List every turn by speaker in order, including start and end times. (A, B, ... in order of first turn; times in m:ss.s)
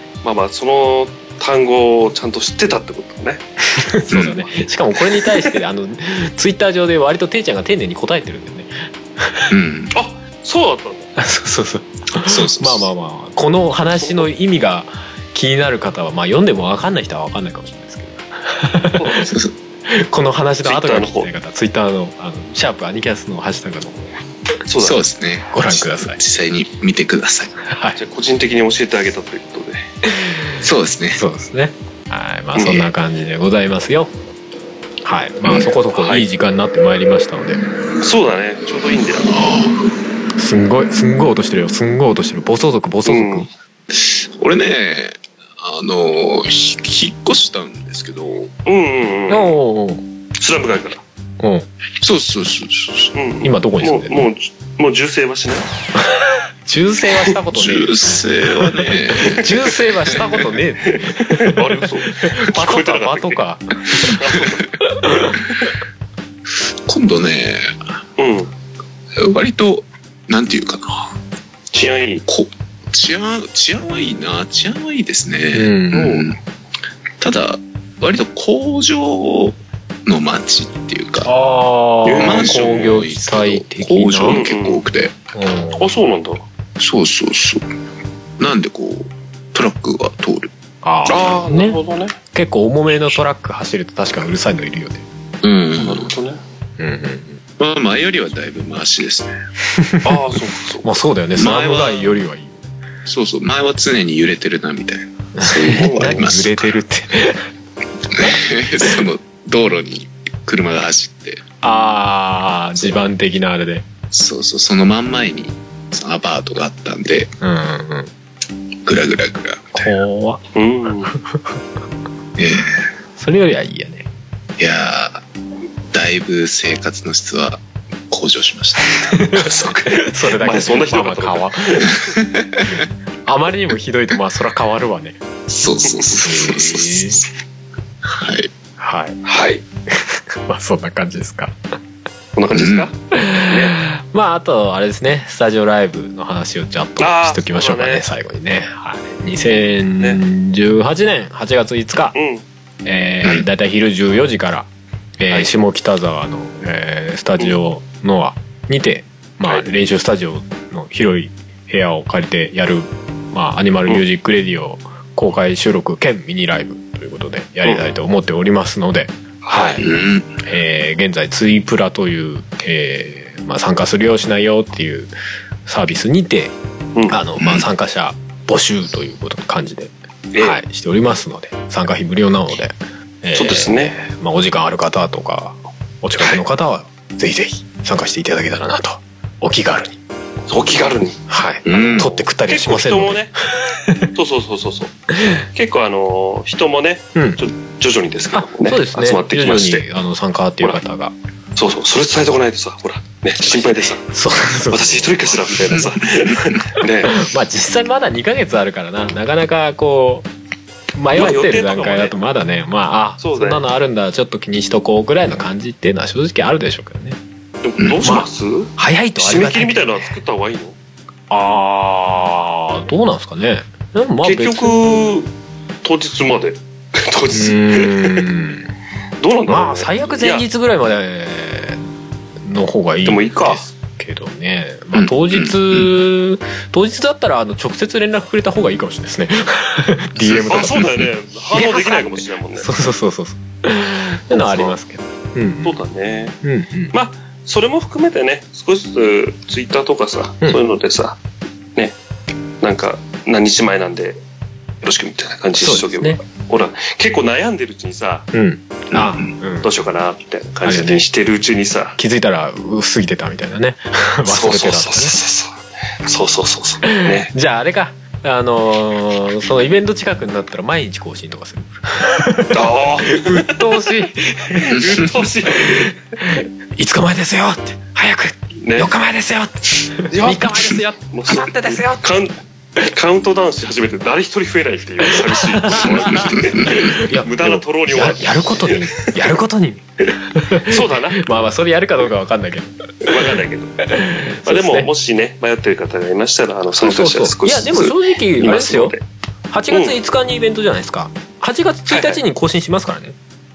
0:00.2-0:03.4 A
0:03.6-0:09.5 B
0:04.1-0:04.4 C
0:05.1-0:05.5 A
0:09.5-0:09.9 C
0:09.9-0:11.1 A
0:11.2-0:19.2 B
0:12.2-0:12.9 C
0:14.0-0:14.2 A
0:19.0-0:19.3 A
0:19.3-0:19.5 C
0:19.9-0:24.2 B
0:20.6-0:21.3 A
0:24.7-0:25.0 A
0:24.8-0:27.5 C
0:25.5-0:26.2 B
0:27.6-0:28.0 B
0:28.0-0:29.8 A
0:30.0-0:34.1 B
0:30.6-0:31.2 C
0:32.5-0:32.9 A
0:35.0-0:37.6 B
0:36.0-0:36.2 A
0:38.0-0:39.3 A
0:39.3-0:39.8 C
0:40.4-0:43.5 B
0:43.0-0:43.4 A
0:43.9-0:48.5 C
0:48.6-0:49.6 A
0:49.3-0:50.0 B
0:50.4-0:51.0 A
0:51.4-0:51.7 B
0:52.0-0:53.1 C
0:53.1-0:55.7 A
0:53.4-0:54.2 B
0:56.0-1:04.2 B
0:57.5-1:00.3 C
1:00.9-1:03.4 A
1:04.2-1:04.7 A
1:04.8-1:05.5 B
1:06.5-1:07.9 C
1:08.2-1:08.5 A
1:09.2-1:11.2 C
1:11.7-1:12.2 A
1:12.3-1:16.4 C
1:15.5-1:16.1 B
1:15.9-1:16.3 A
1:17.2-1:21.3 C
1:21.2-1:24.4 B
1:22.0-1:23.0 A
1:22.2-1:25.1 C
1:24.3-1:24.8 A
1:25.3-1:25.9 B
1:25.8-1:26.4 A
1:26.8-1:27.6 C
1:28.4-1:30.5 C
1:30.8-1:31.8 B
1:31.1-1:32.2 A
1:32.3-1:35.0 B
1:35.4-1:36.1 C
1:35.8-1:36.4 A
1:36.8-1:37.4 B
1:37.6-1:39.3 C
1:39.7-1:40.2 B
1:40.0-1:40.9 A
1:40.8-1:42.7 B
1:41.4-1:42.1 C
1:43.0-1:46.7 C
1:45.4-1:47.5 B
1:45.7-1:46.2 A
1:48.1-1:51.4 C
1:51.6-1:53.8 B
1:54.1-1:57.3 C
1:57.4-1:58.1 B
1:58.8-1:59.9 C
1:59.7-2:00.4 B
2:00.5-2:01.1 A
2:01.1-2:01.5 B
2:02.4-2:02.9 C
2:03.2-2:04.1 B
2:04.6-2:05.2 C
2:05.9-2:09.2 C
2:08.9-2:11.9 B
2:09.3-2:12.1 A
2:12.3-2:12.6 C
2:12.6-2:15.2 B
2:15.5-2:17.3 C
2:16.2-2:17.2 B
2:18.0-2:18.5 C
2:18.8-2:19.2 B
2:19.2-2:19.6 A
2:20.4-2:21.6 B
2:22.4-2:23.8 A
2:22.5-2:22.9 C
2:23.1-2:32.2 B
2:27.0-2:28.0 A
2:32.1-2:32.4 A
2:32.8-2:34.7 B
2:35.2-2:49.8 B
2:39.4-2:39.7 A
2:49.4-2:49.8 A
2:49.8-2:50.3 C
2:50.4-2:55.1 B
2:55.6-2:56.5 B
2:57.1-3:10.0 B
2:57.4-2:57.7 C
3:00.3-3:00.6 A
3:03.4-3:03.9 A
3:10.5-3:13.3 A
3:11.3-3:14.0 B
3:11.6-3:12.1 C
3:14.1-3:14.9 A
3:15.5-3:19.8 A
3:18.3-3:21.1 B
3:21.6-3:24.0 A
3:23.4-3:25.8 B
3:24.7-3:27.1 A
3:25.7-3:26.6 C
3:27.0-3:30.3 B
3:31.0-3:37.2 B
3:31.1-3:32.2 A
3:33.2-3:33.6 A
3:37.6-3:40.7 A
3:38.0-3:40.1 B
3:41.3-3:45.2 B
3:44.2-3:45.3 A
3:45.8-3:48.3 A
3:47.3-3:48.7 B
3:49.2-3:50.4 A
3:49.5-3:51.9 B
3:52.4-4:00.9 B
3:53.0-3:53.6 A
3:54.9-3:55.9 C
4:00.2-4:01.1 C
4:00.5-4:02.7 A
4:01.5-4:05.8 B
4:04.3-4:04.8 A
4:05.6-4:06.4 A
4:06.4-4:06.9 B
4:06.9-4:11.2 A
4:12.6-4:14.2 A
4:14.8-4:18.3 A
4:15.5-4:16.2 B
4:18.3-4:19.7 B
4:18.9-4:19.3 C
4:19.6-4:22.0 A
4:20.6-4:21.0 B
4:22.0-4:25.1 B
4:24.3-4:27.3 A
4:26.9-4:35.0 B
4:32.5-4:33.7 A
4:34.5-4:35.9 A
4:35.5-4:42.0 B
4:38.6-4:38.9 A
4:40.1-4:48.9 A
4:45.1-4:54.9 B
4:45.7-4:46.9 C
4:50.7-4:51.2 A
4:53.0-4:53.7 A
4:54.4-4:59.0 A
4:56.8-4:58.9 B
4:59.5-5:03.2 B
4:59.7-4:59.9 A
5:01.9-5:02.2 A